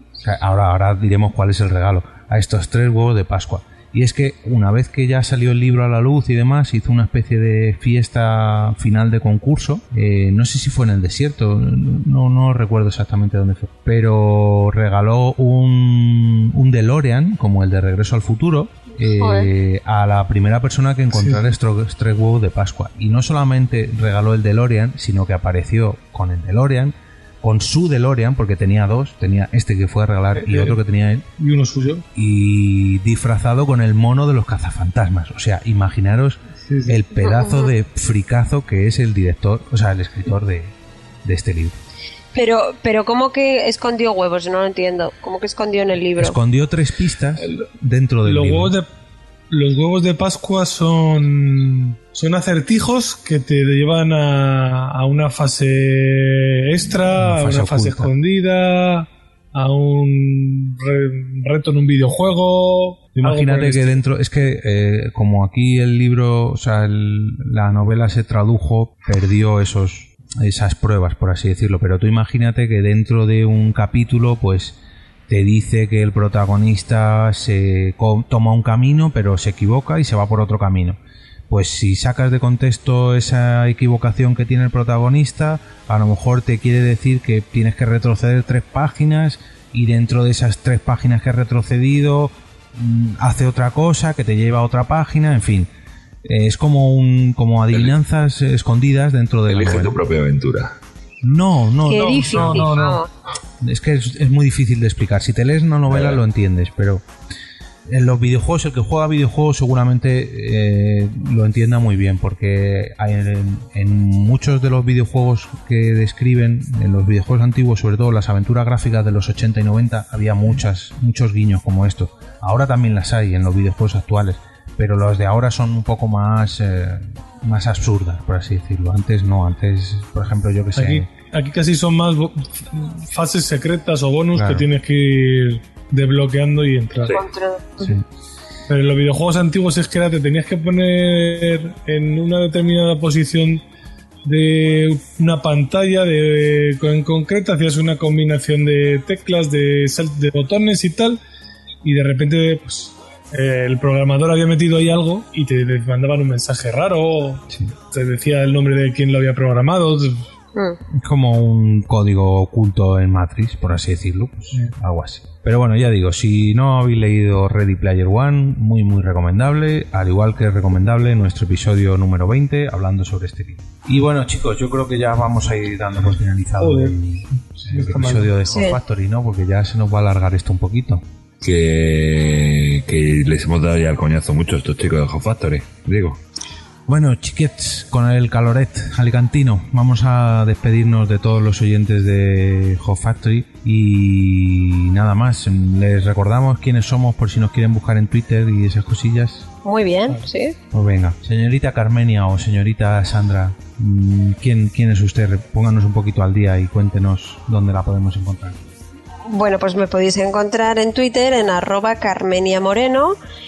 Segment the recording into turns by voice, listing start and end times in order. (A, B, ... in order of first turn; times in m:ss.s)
0:00.2-0:31.2 A
0:19.2-0:19.5 B
0:30.4-0:30.8 C
0:31.4-0:32.0 C
0:32.1-0:41.8 A
0:36.6-0:37.0 C
0:37.2-0:37.7 B
0:42.3-0:46.4 B
0:46.2-0:48.7 A
0:48.2-0:48.9 C
0:49.5-1:04.0 C
0:57.1-0:58.1 A
1:03.2-1:35.7 A
1:36.2-1:40.0 A
1:39.5-1:40.7 D
1:41.2-1:42.9 A
1:41.9-1:43.1 B
1:41.9-1:43.0 C
1:43.6-1:47.0 A
1:45.9-1:46.2 D
1:47.9-2:11.1 A
2:10.8-2:17.1 C
2:14.3-2:14.6 A
2:17.1-2:17.9 B
2:17.8-2:18.0 A
2:18.7-2:23.6 C
2:24.2-2:31.2 C
2:31.8-2:40.2 C
2:40.9-3:01.0 A
2:56.6-2:57.0 C
2:57.5-2:58.3 C
2:58.5-2:58.8 B
3:01.4-3:06.2 D
3:06.9-3:19.5 A
3:19.6-3:20.6 B
3:20.7-3:28.6 A
3:29.3-3:33.2 B